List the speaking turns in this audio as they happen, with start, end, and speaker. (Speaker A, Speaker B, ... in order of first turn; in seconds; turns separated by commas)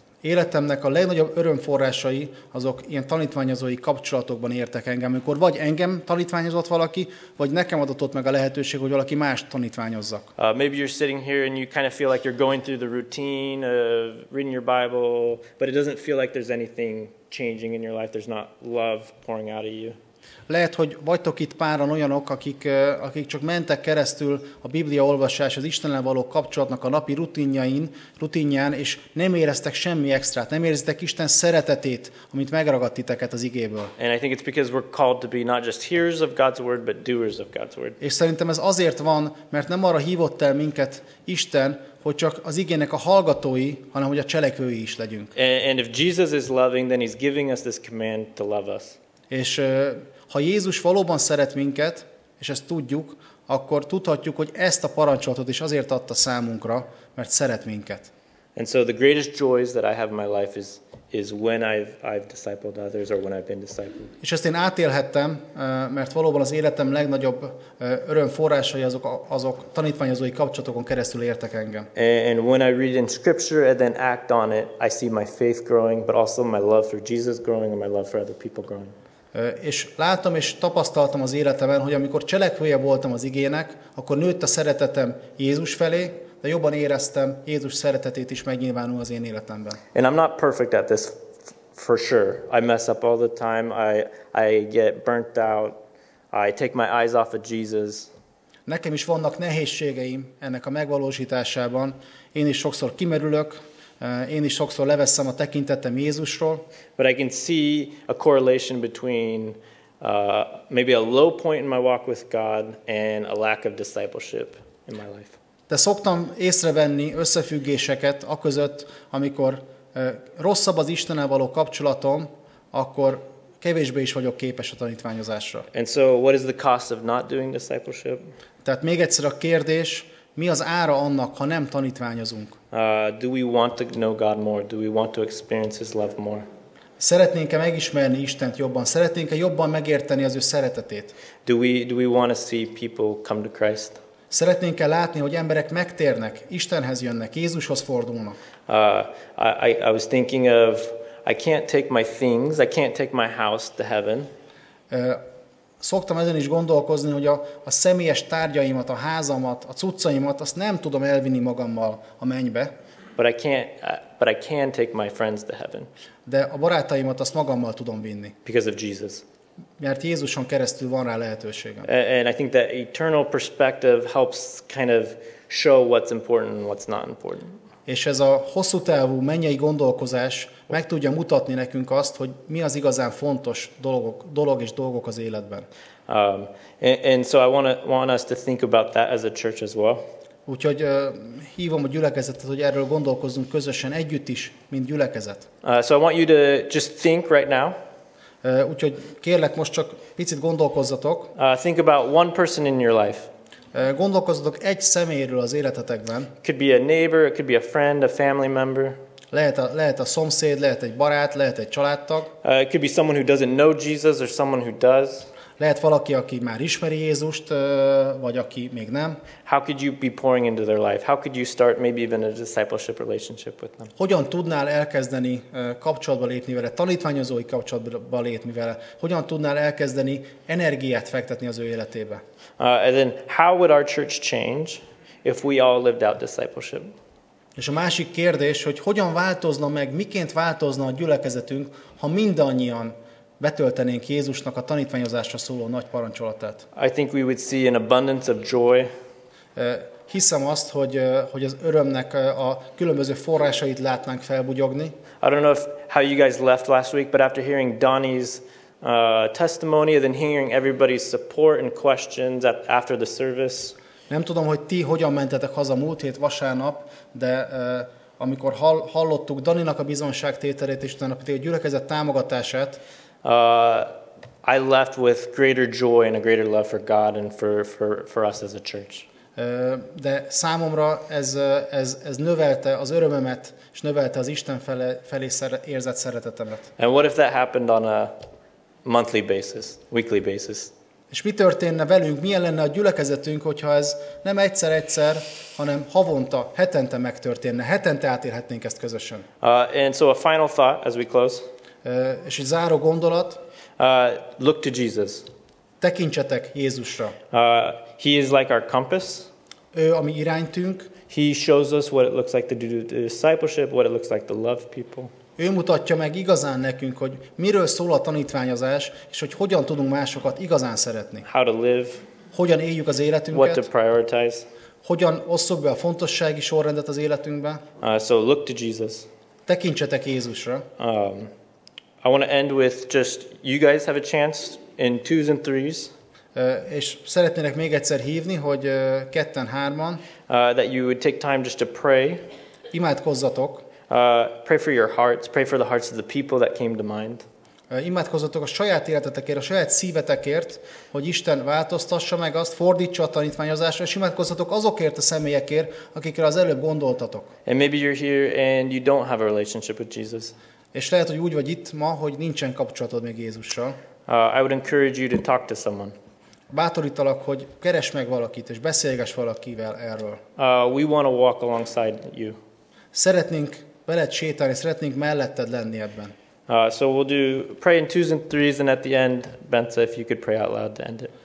Speaker A: 0.2-10.3, Speaker B: 10.4-19.9, Speaker A: 20.5-33.9, Speaker B: 34.0-38.0, Speaker A: 38.0-45.3, Speaker B: 45.3-49.0, Speaker A: 49.3-58.1, Speaker B: 58.5-64.1, Speaker A: 64.2-71.9, Speaker B: 71.9-78.9, Speaker A: 79.3-89.8, Speaker B: 89.9-91.2, Speaker B: 91.7-95.8, Speaker B: 96.3-98.1, Speaker A: 98.7-106.6, Speaker B: 107.0-115.3, Speaker A: 115.7-125.7, Speaker B: 125.7-128.2, Speaker A: 128.6-132.6, Speaker B: 132.7-136.4, Speaker A: 137.0-141.1, Speaker B: 141.4-144.0, Speaker A: 144.3-148.4, Speaker B: 148.7-154.3, Speaker A: 154.9-155.2, Speaker A: 155.8-162.7, Speaker B: 163.2-165.9, Speaker A: 166.2-168.3, Speaker B: 168.4-169.2, Speaker A: 169.8-171.9, Speaker B: 171.8-177.5, Speaker A: 177.8-185.7, Speaker B: 186.1-190.0, Speaker A: 190.5-195.4, Speaker B: 195.6-197.8, Speaker A: 198.4-201.3, Speaker B: 201.3-203.3, Speaker A: 203.7-206.3, Speaker B: 206.4-209.0, Speaker A: 209.3-212.3, Speaker B: 212.4-215.3, Speaker A: 215.6-219.2, Speaker B: 219.4-223.9, Speaker A: 224.0-232.2, Speaker B: 232.6-236.9, Speaker A: 237.6-246.7, Speaker B: 246.7-248.9, Speaker A: 249.6-254.9, Speaker B: 255.2-263.7, Speaker A: 264.1-272.8, Speaker B: 273.2-279.1, Speaker A: 279.4-286.7, Speaker B: 286.8-288.1, Speaker B: 288.8-290.7, Speaker A: 291.1-299.2, Speaker B: 299.4-301.4, Speaker A: 301.8-303.4, Speaker B: 303.8-305.2, Speaker A: 305.8-307.1, Speaker B: 307.3-309.3, Speaker A: 309.7-310.9, Speaker B: 311.1-315.1, Speaker A: 315.4-321.2, Speaker B: 321.2-322.0, Speaker A: 322.3-323.6, Speaker B: 323.3-324.4, Speaker A: 324.8-327.6, Speaker B: 327.8-329.1, Speaker A: 329.5-330.6, Speaker B: 330.8-331.3, Speaker B: 332.0-335.9, Speaker A: 336.3-340.0, Speaker B: 340.3-342.2, Speaker A: 342.7-343.6, Speaker B: 343.9-347.2, Speaker A: 347.7-357.3, Speaker B: 357.4-360.3, Speaker A: 360.7-363.8, Speaker B: 364.1-365.9, Speaker A: 366.5-370.2, Speaker B: 370.4-372.4, Speaker A: 372.9-376.1, Speaker B: 376.5-381.1